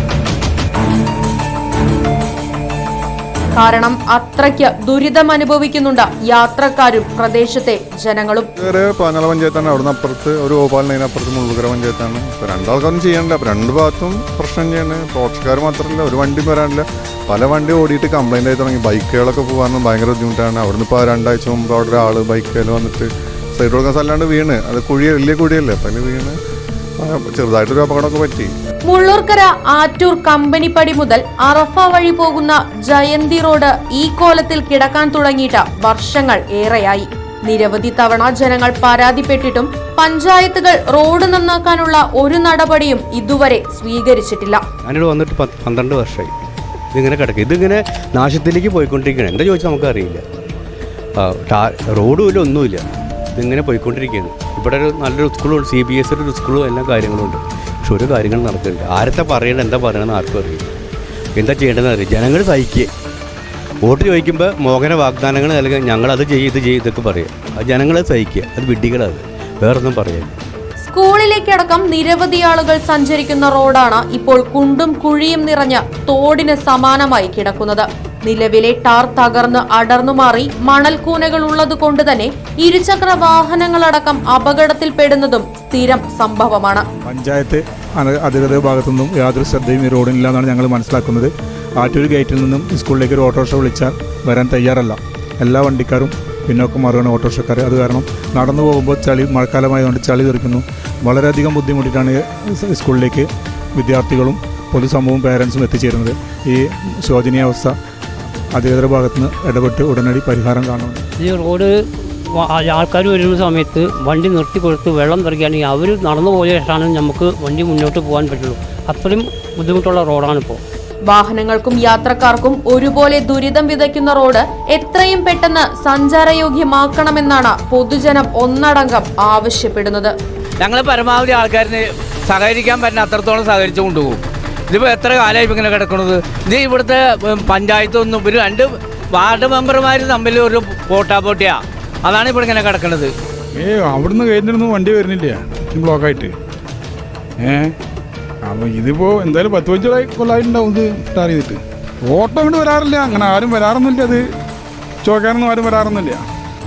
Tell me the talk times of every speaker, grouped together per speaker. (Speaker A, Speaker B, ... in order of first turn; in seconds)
Speaker A: 3.6-8.5, 28.9-44.6, 70.8-86.8, 121.1-130.2
Speaker B: 8.6-26.4, 27.0-28.5
Speaker C: 44.9-46.3, 46.9-50.2, 51.2-52.9, 53.4-60.6, 61.4-62.9, 63.9-70.4
Speaker D: 87.1-107.7, 108.5-111.0
Speaker E: 111.2-111.7, 112.3-120.6
Speaker F: 130.6-143.1
Speaker G: 143.6-146.3, 147.4-147.7, 148.5-151.6, 152.1-154.2, 155.0-156.2